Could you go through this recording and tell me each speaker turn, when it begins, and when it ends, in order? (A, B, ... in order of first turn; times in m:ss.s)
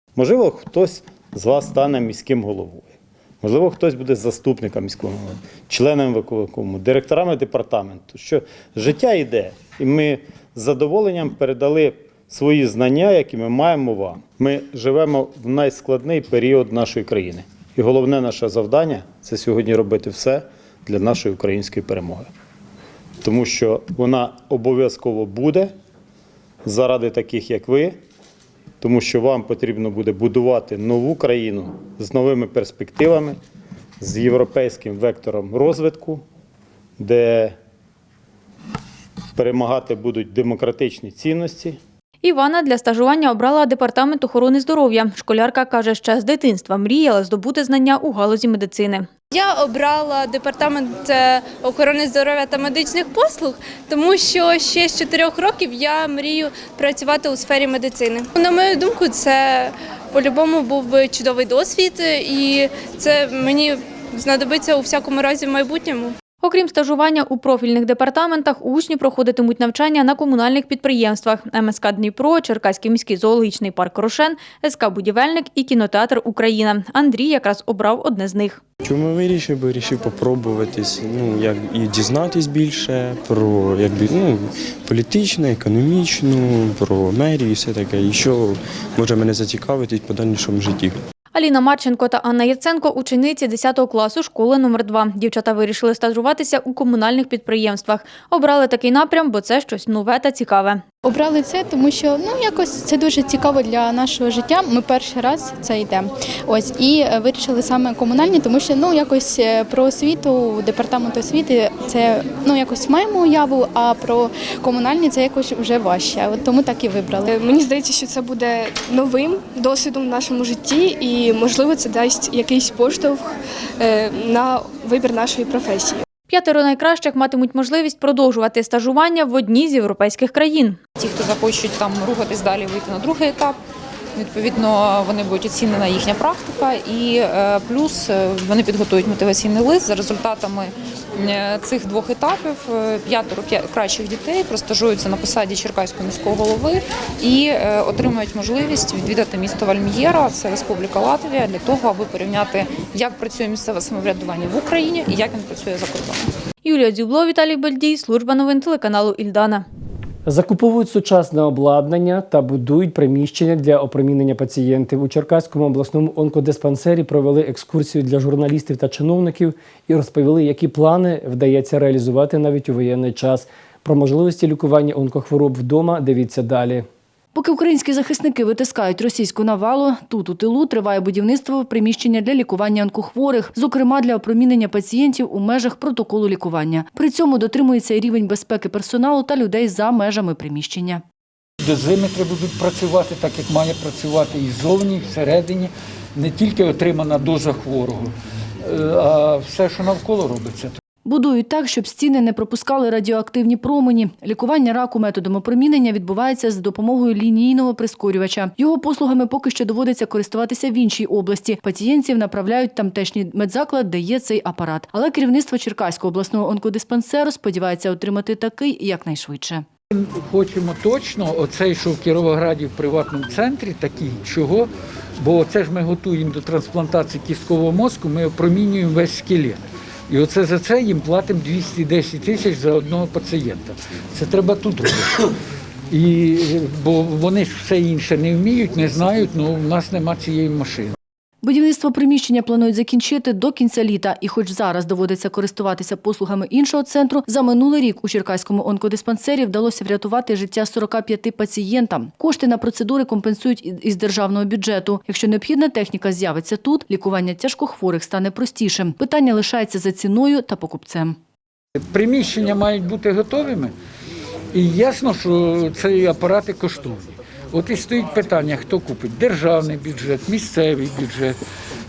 0:00.2-0:22.3 A
0:23.2-0:25.7 A
0:26.6-0:28.0 A
0:28.8-0:33.4 A
0:34.0-0:36.2 A
0:37.0-0:37.6 A
0:39.4-0:41.8 A
0:42.2-0:49.1 B
0:49.3-1:06.1 C
1:06.4-1:18.6 B
1:18.8-1:31.0 D
1:31.3-1:40.8 B
1:41.0-1:57.3 E
1:57.3-2:06.0 F
2:06.3-2:10.8 B
2:11.0-2:13.6 G
2:14.2-2:36.3 G
2:36.6-2:39.7 B
2:40.3-2:56.9 H
2:57.3-3:11.0 I
3:11.6-3:20.8 J
3:21.0-3:39.7 I
3:40.0-3:55.2 J
3:55.9-4:01.0 J
4:01.4-4:21.2 I
4:21.8-4:23.7 J
4:24.5-4:31.4 J